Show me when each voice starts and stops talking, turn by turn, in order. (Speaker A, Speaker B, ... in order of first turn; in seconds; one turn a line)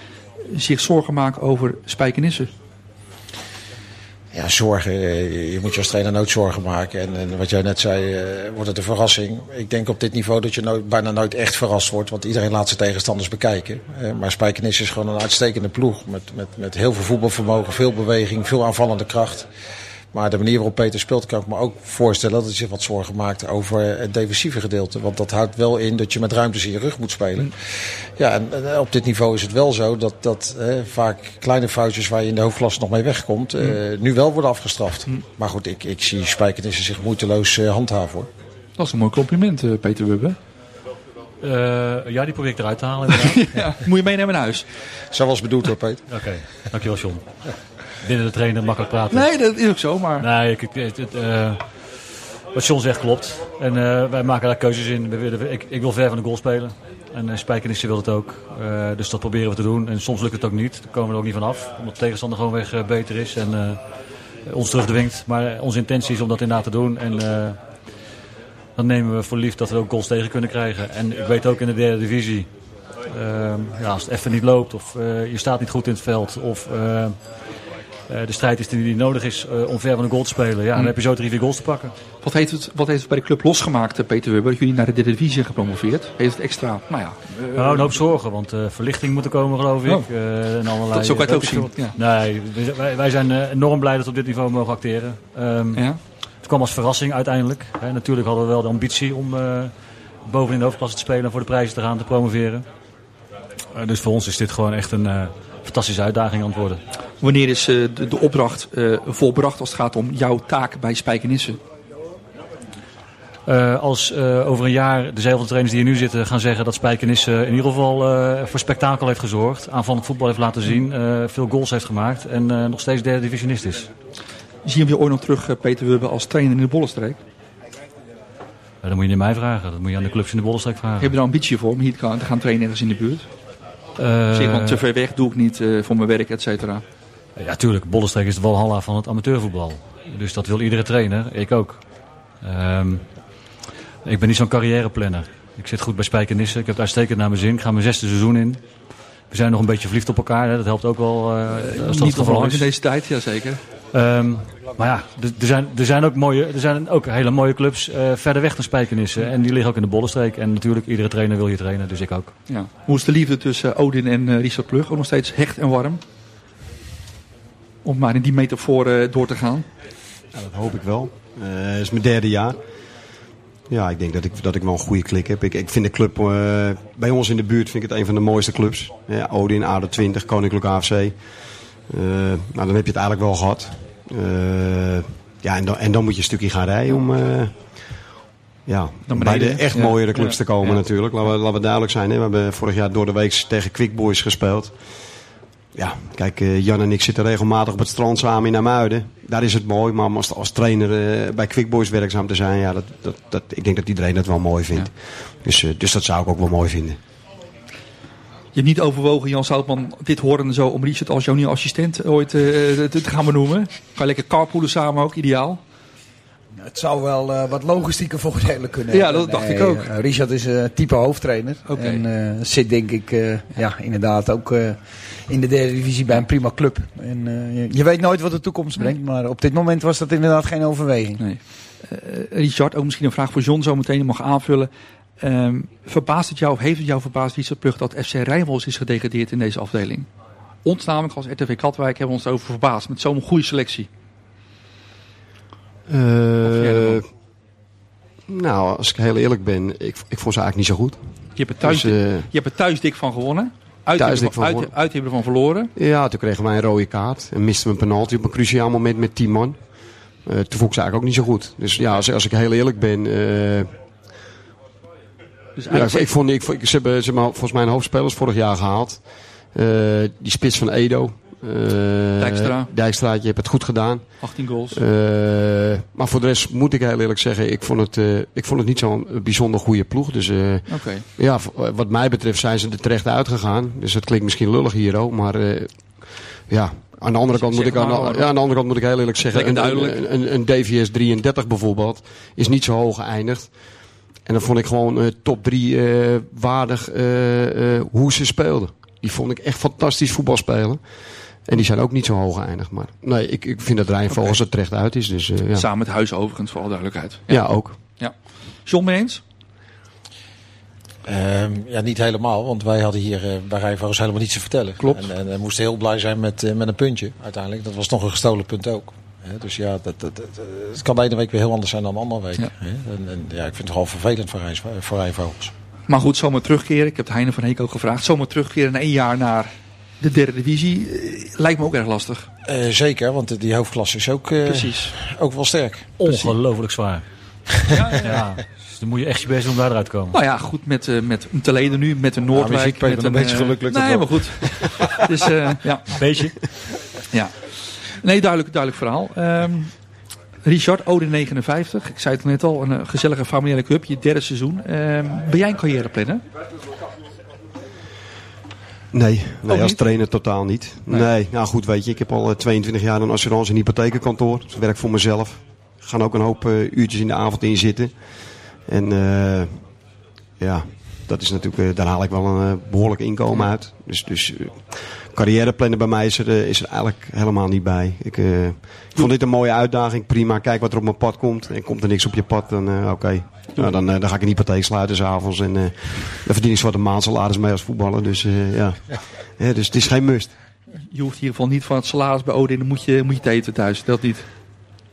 Speaker A: 0.5-2.5
Speaker B: 4.3-19.5
Speaker B: 20.1-27.6
Speaker B: 28.2-38.3
Speaker A: 38.8-40.4
Speaker C: 41.4-43.6
Speaker A: 43.2-44.7
Speaker B: 45.1-46.0
Speaker C: 46.1-47.2
Speaker C: 48.0-49.3
Speaker A: 49.1-50.2
Speaker C: 50.2-51.7
Speaker C: 52.5-63.8
Speaker C: 64.5-67.6
Speaker C: 68.8-72.5
Speaker C: 73.1-77.2
Speaker C: 78.1-81.9
Speaker A: 82.2-88.0
Speaker C: 87.5-95.8
Speaker A: 90.9-92.0
Speaker C: 96.4-99.7
Speaker C: 100.2-102.6
Speaker C: 103.7-106.8
Speaker A: 107.2-111.6
Speaker C: 113.5-123.9
Speaker A: 124.6-127.2
Speaker C: 128.8-131.2
Speaker A: 131.0-133.2
Speaker C: 134.0-134.8
Speaker A: 134.3-136.8
Speaker C: 137.4-141.8
Speaker C: 142.4-143.1
Speaker C: 144.0-148.6
Speaker C: 149.3-152.7
Speaker A: 151.5-153.6
Speaker C: 153.9-162.3
Speaker A: 162.5-166.0
Speaker A: 167.8-169.7
Speaker D: 170.3-172.8
Speaker D: 173.7-188.0
Speaker D: 188.7-195.2
Speaker A: 189.1-190.8
Speaker D: 195.7-207.0
Speaker A: 208.5-215.6
Speaker E: 216.6-231.2
Speaker A: 218.9-219.9
Speaker A: 221.7-222.0
Speaker A: 231.2-240.1
Speaker A: 240.6-243.9
Speaker D: 245.9-247.1
Speaker A: 246.4-247.0
Speaker D: 248.3-252.3
Speaker A: 251.3-255.7
Speaker D: 253.9-254.7
Speaker D: 255.8-263.7
Speaker A: 265.6-266.1
Speaker D: 265.7-305.6
Speaker A: 272.2-272.7
Speaker A: 274.2-274.8
Speaker A: 280.7-281.1
Speaker A: 287.3-288.4
Speaker A: 289.3-290.0
Speaker A: 304.1-304.4
Speaker A: 305.5-309.2
Speaker D: 307.3-307.8
Speaker B: 311.0-325.5
Speaker A: 314.8-315.1
Speaker A: 325.9-332.3
Speaker B: 332.4-336.3
Speaker A: 334.4-334.9
Speaker C: 336.0-340.1
Speaker A: 337.7-338.2
Speaker A: 340.1-346.4
Speaker B: 342.3-344.7
Speaker C: 346.0-346.3
Speaker A: 347.1-349.7
Speaker A: 350.4-356.2
Speaker D: 358.9-369.8
Speaker A: 359.5-359.8
Speaker D: 370.4-390.4
Speaker A: 390.9-394.3